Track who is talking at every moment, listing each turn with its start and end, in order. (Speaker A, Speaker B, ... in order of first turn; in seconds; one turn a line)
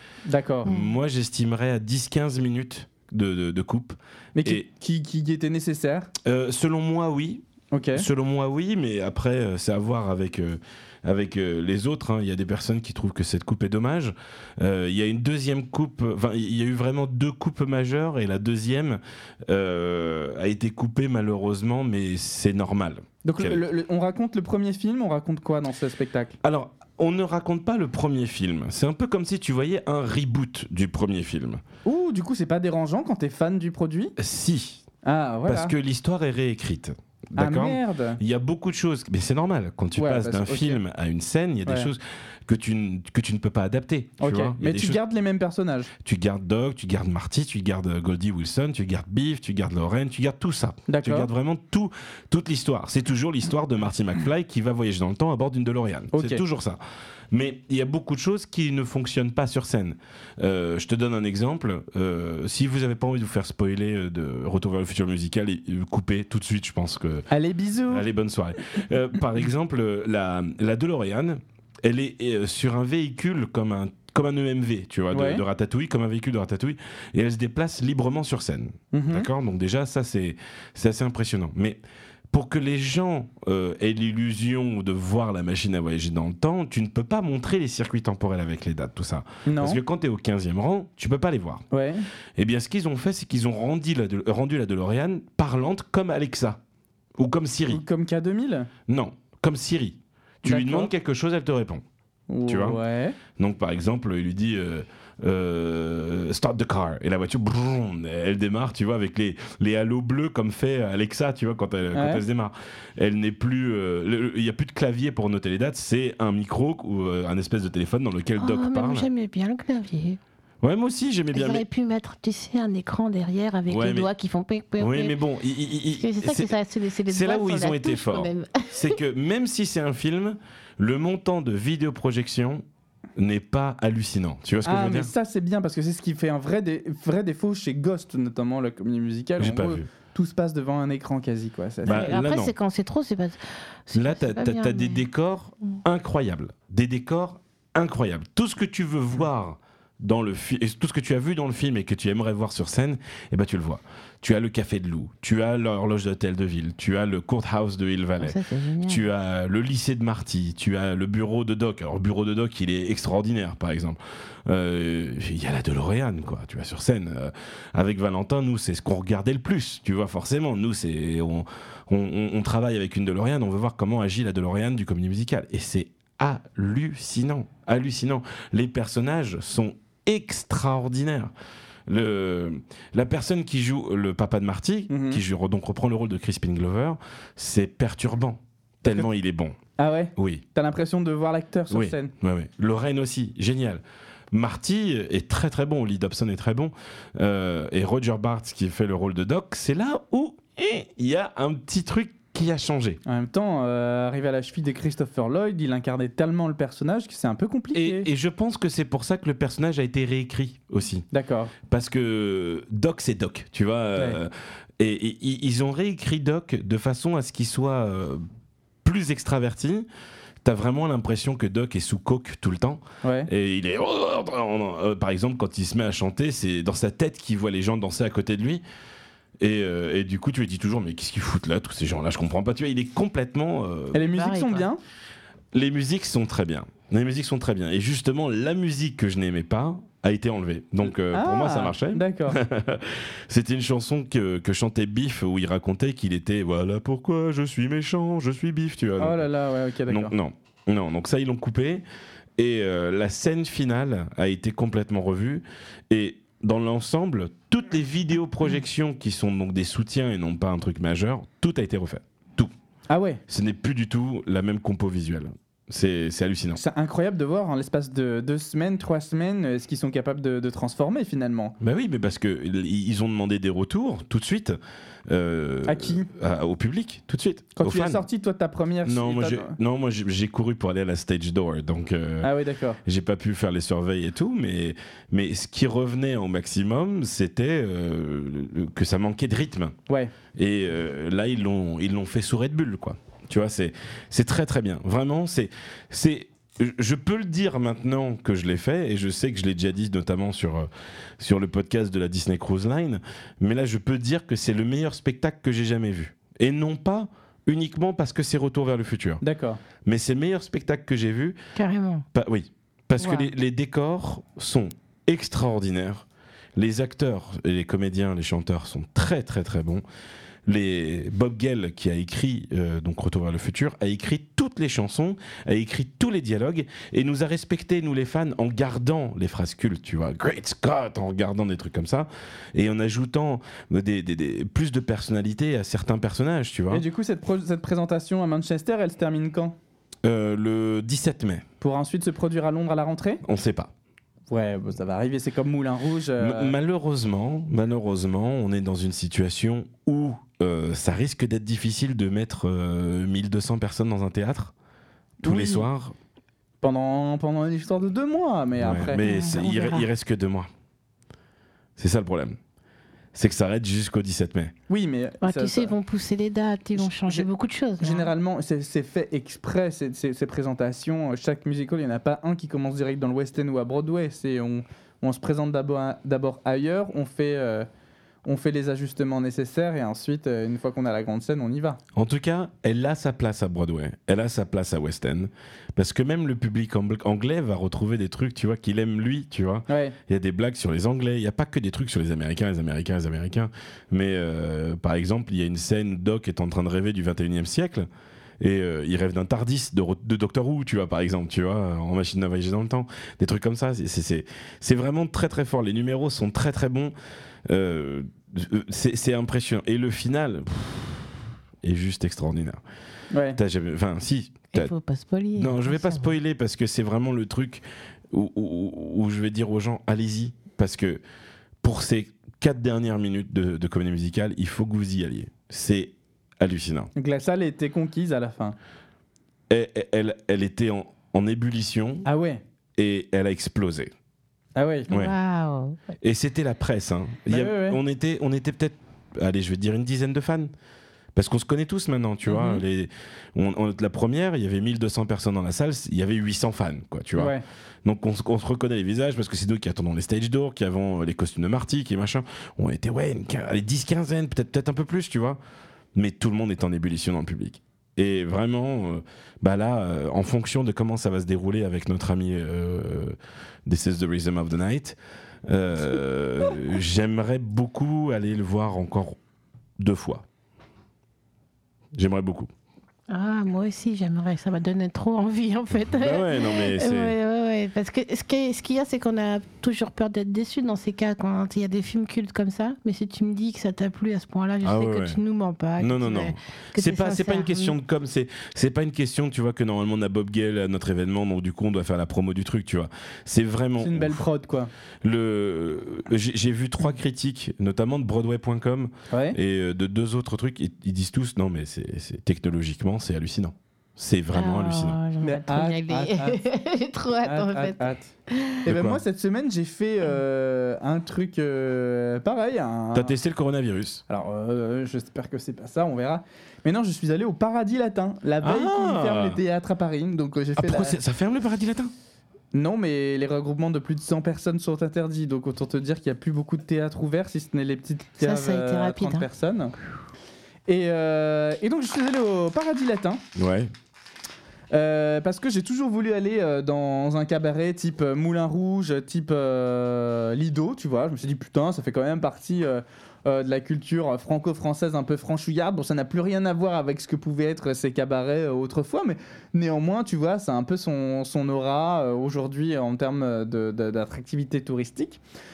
Speaker A: 0.3-0.7
Speaker B: 0.6-4.6
Speaker C: 0.7-0.9
Speaker A: 4.3-6.1
Speaker B: 6.2-7.4
Speaker A: 7.7-8.0
Speaker B: 7.9-23.6
Speaker A: 23.2-26.4
Speaker B: 26.4-31.6
Speaker A: 31.8-34.1
Speaker B: 34.2-34.8
Speaker A: 35.0-35.7
Speaker B: 35.5-45.0
Speaker A: 37.4-38.2
Speaker A: 40.0-40.8
Speaker A: 41.6-41.9
Speaker A: 44.2-45.9
Speaker B: 46.0-56.8
Speaker A: 50.9-51.3
Speaker A: 56.1-56.4
Speaker B: 57.3-67.3
Speaker A: 67.3-68.1
Speaker B: 67.9-91.6
Speaker A: 75.1-75.4
Speaker A: 78.9-79.3
Speaker A: 89.5-89.8
Speaker A: 91.7-92.0
Speaker B: 92.4-96.6
Speaker B: 97.2-97.8
Speaker A: 97.7-98.7
Speaker B: 98.9-101.8
Speaker A: 100.4-100.9
Speaker A: 102.3-103.2
Speaker B: 102.5-102.8
Speaker B: 103.4-119.1
Speaker A: 111.9-112.2
Speaker C: 118.4-120.2
Speaker B: 120.6-121.6
Speaker C: 121.3-125.2
Speaker B: 123.7-124.1
Speaker B: 124.8-126.5
Speaker C: 126.0-129.0
Speaker B: 127.1-132.6
Speaker B: 133.2-135.1
Speaker A: 134.6-142.1
Speaker B: 139.4-139.9
Speaker B: 141.8-142.5
Speaker C: 141.9-145.0
Speaker B: 143.9-181.3
Speaker C: 158.2-159.0
Speaker B: 181.9-189.6
Speaker A: 184.9-185.2
Speaker A: 189.8-192.1
Speaker B: 190.2-190.4
Speaker B: 191.7-203.0
Speaker A: 203.1-208.1
Speaker B: 207.7-211.1
Speaker A: 211.1-211.5
Speaker B: 211.6-218.2
Speaker B: 218.8-219.9
Speaker B: 220.4-228.6
Speaker A: 223.0-223.3
Speaker B: 229.4-234.1
Speaker A: 233.9-234.8
Speaker C: 234.1-234.7
Speaker B: 235.5-249.2
Speaker A: 241.1-242.4
Speaker A: 249.0-250.1
Speaker B: 249.9-251.8
Speaker B: 252.4-262.5
Speaker A: 262.9-263.2
Speaker B: 263.3-266.6
Speaker A: 266.5-271.5
Speaker B: 271.6-278.0
Speaker A: 275.6-276.1
Speaker A: 277.6-279.6
Speaker B: 278.8-282.3
Speaker A: 282.2-282.8
Speaker B: 282.8-289.8
Speaker A: 289.9-290.1
Speaker B: 290.3-309.2
Speaker A: 309.2-309.6
Speaker B: 309.8-311.4
Speaker C: 311.6-312.1
Speaker B: 312.1-319.8
Speaker C: 313.0-313.2
Speaker B: 320.5-336.8
Speaker A: 336.7-339.6
Speaker B: 340.0-341.4
Speaker A: 341.6-343.2
Speaker B: 343.2-343.7
Speaker A: 344.3-346.5
Speaker B: 346.2-354.5
Speaker A: 355.2-355.6
Speaker B: 355.2-356.0
Speaker A: 356.6-359.0
Speaker B: 358.6-360.5
Speaker C: 359.0-359.9
Speaker B: 361.8-362.4
Speaker B: 363.1-364.5
Speaker A: 364.7-365.8
Speaker C: 365.2-368.1
Speaker A: 366.8-367.3
Speaker A: 367.8-377.7
Speaker A: 378.2-381.8
Speaker B: 382.0-397.9
Speaker A: 389.7-389.9
Speaker B: 398.4-406.9
Speaker B: 407.5-412.6
Speaker A: 413.1-413.4
Speaker B: 413.4-414.7
Speaker C: 414.5-416.1
Speaker B: 415.4-421.0
Speaker B: 421.6-426.9
Speaker A: 427.0-428.6
Speaker B: 429.5-432.1
Speaker A: 432.0-432.4
Speaker B: 432.8-433.9
Speaker A: 434.6-434.9
Speaker B: 434.9-435.1
Speaker C: 434.9-435.8
Speaker B: 436.0-440.5
Speaker A: 437.3-437.8
Speaker B: 441.1-455.4
Speaker A: 442.3-442.6
Speaker A: 447.2-447.4
Speaker B: 455.9-469.2
Speaker B: 469.8-470.2
Speaker B: 471.9-472.5
Speaker C: 473.1-487.7
Speaker B: 475.9-477.1
Speaker B: 484.6-485.2
Speaker B: 485.8-494.2
Speaker A: 493.8-494.7
Speaker B: 495.0-505.0
Speaker A: 499.1-499.4
Speaker C: 504.3-508.6
Speaker A: 505.2-506.4
Speaker A: 507.2-508.1
Speaker A: 508.6-513.1
Speaker B: 508.6-509.0
Speaker B: 512.9-514.0
Speaker A: 514.1-521.0
Speaker B: 518.4-519.4
Speaker B: 520.6-521.9
Speaker A: 522.5-529.7
Speaker C: 528.2-529.2
Speaker A: 530.7-533.2
Speaker B: 533.4-533.7
Speaker A: 534.7-555.2